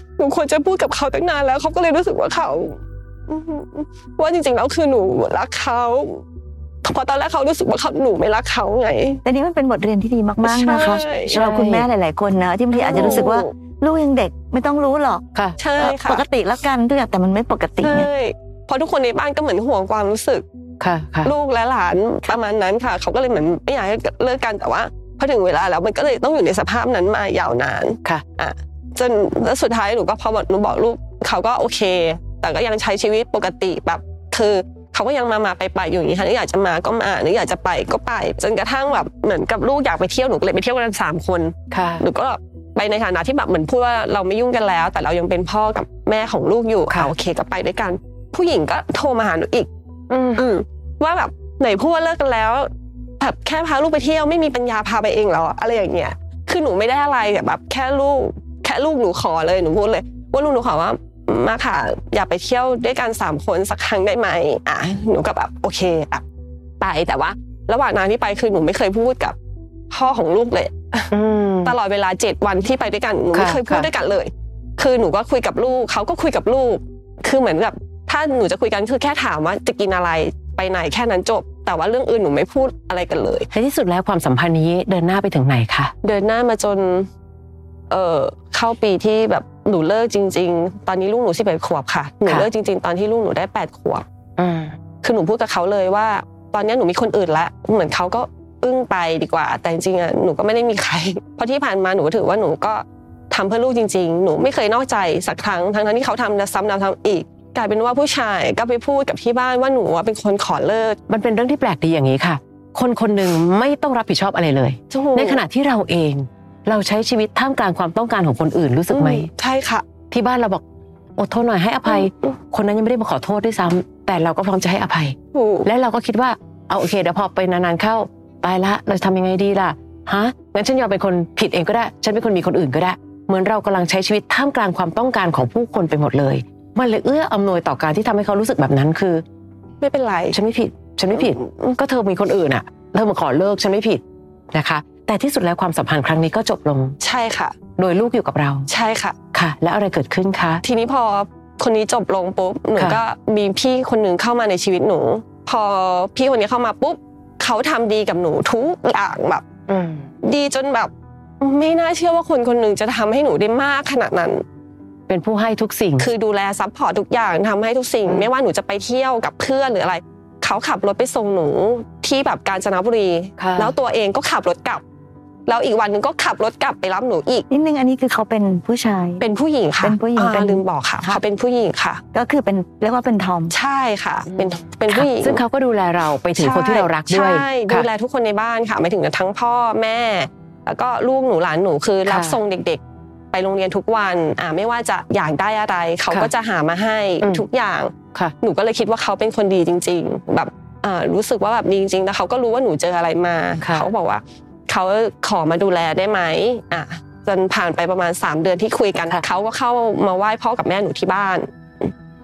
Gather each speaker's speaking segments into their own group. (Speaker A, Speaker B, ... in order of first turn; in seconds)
Speaker A: 0.2-6.2, 6.8-9.2, 10.4-11.5, 12.7-13.5, 15.6-16.2, 17.8-20.4, 21.2-49.7, 50.4-52.7, 53.2-66.2, 66.8-69.4, 69.9-71.1, 71.7-83.5, 86.0-87.1, 87.9-94.0, 95.0-111.0, 114.9-115.4, 118.9-119.9, 125.3-125.7, 139.8-140.4, 141.2-141.4, 147.0-147.6, 148.7-149.2, 150.6-159.5, 160.2-164.4, 166.0-174.8, 175.5-177.5, 179.2-182.0, 183.5-185.4, 186.4-192.8, 193.3-211.5
Speaker B: 9.2-15.2, 15.8-18.1, 177.5-179.2, 179.8-181.2, 182.1-183.5
Speaker C: 11.3-11.9, 12.9-13.3, 20.8-21.3, 41.7-42.0, 50.1-50.4, 71.1-71.8, 73.3-73.9, 83.5-85.9, 94.4-94.8, 111.1-119.3, 120.1-120.6, 121.2-139.2, 140.3-144.0, 144.5-146.9, 147.8-148.7, 149.3-150.6, 159.7-160.1, 165.1-166.1, 173.4-173.7, 184.3-187.9, 192.1-192.4, 203.6-203.9